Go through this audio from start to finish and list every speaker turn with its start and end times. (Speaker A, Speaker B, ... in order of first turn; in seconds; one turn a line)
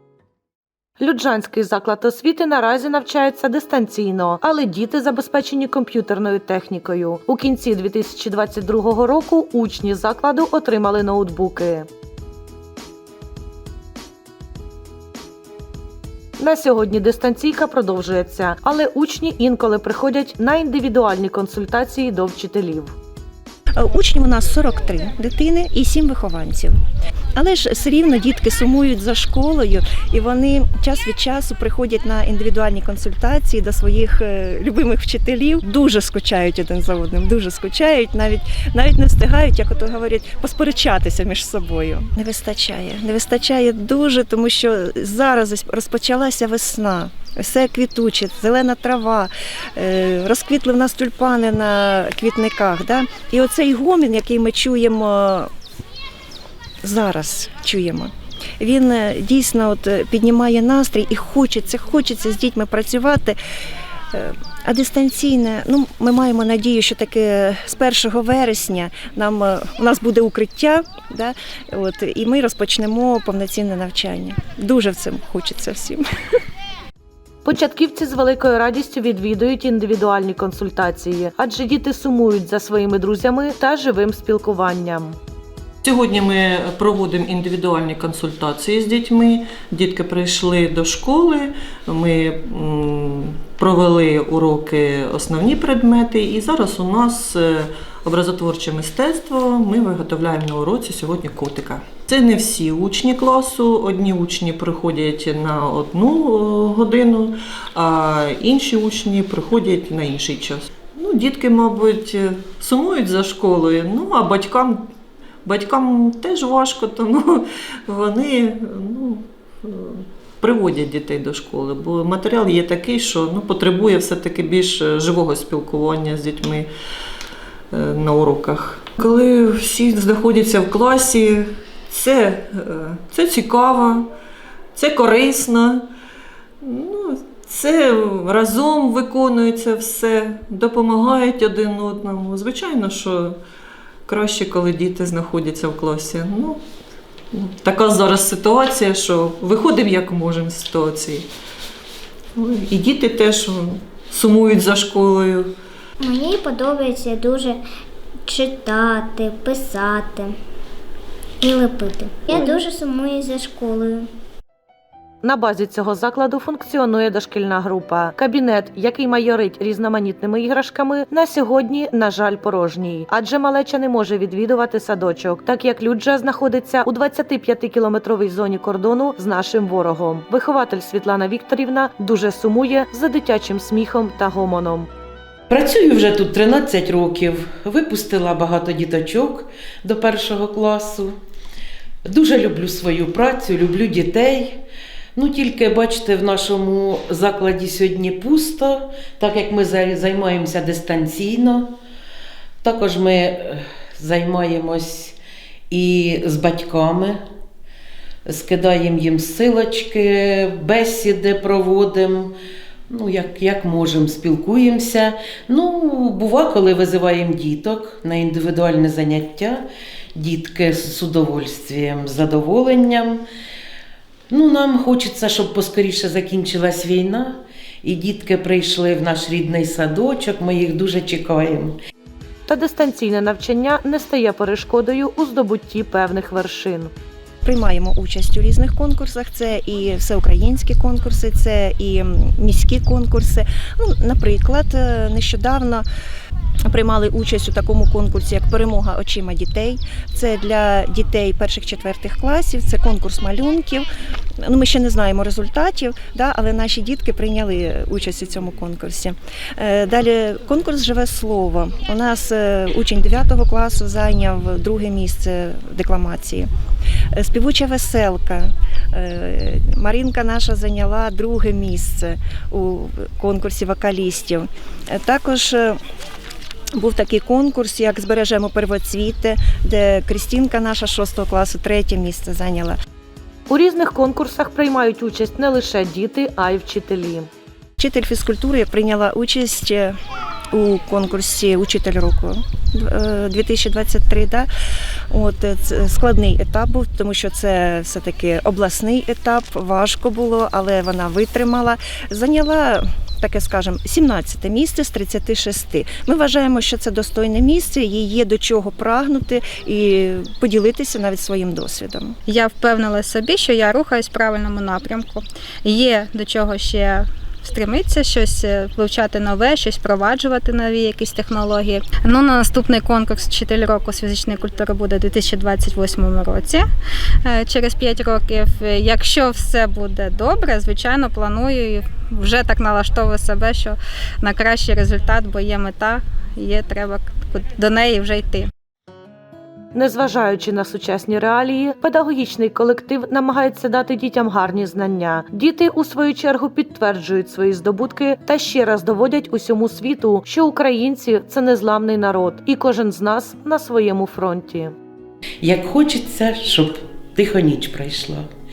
Speaker A: 1.0-11.9
Speaker A: 16.4-22.9
Speaker B: 23.8-26.8
Speaker B: 27.4-55.5
Speaker B: 56.8-63.4
Speaker B: 64.1-76.0
Speaker A: 77.5-85.2
Speaker C: 85.8-114.9
Speaker C: 115.5-126.7
Speaker C: 127.7-134.1
Speaker C: 134.8-135.9
Speaker C: 136.6-143.4
Speaker C: 144.1-146.6
Speaker C: 147.3-151.3
Speaker C: 152.4-155.5
Speaker D: 156.0-157.6
Speaker D: 158.3-160.3
Speaker D: 161.4-164.1
Speaker A: 165.2-184.9
Speaker E: 185.5-191.1
Speaker E: 192.1-194.6
Speaker E: 195.2-201.8
Speaker E: 202.6-205.2
Speaker E: 205.7-207.2
Speaker E: 208.3-212.3
Speaker E: 212.9-223.2
Speaker E: 224.3-231.8
Speaker A: 232.5-236.9
Speaker B: 237.4-245.8
Speaker B: 246.7-253.9
Speaker B: 254.4-266.5
Speaker B: 267.1-275.8
Speaker B: 276.8-282.8
Speaker A: 283.5-287.3
Speaker B: 287.8-289.9
Speaker B: 290.5-294.5
Speaker B: 295.1-312.2
Speaker F: 312.3-326.6
Speaker F: 327.2-338.5
Speaker A: 339.8-354.7
Speaker E: 355.4-358.3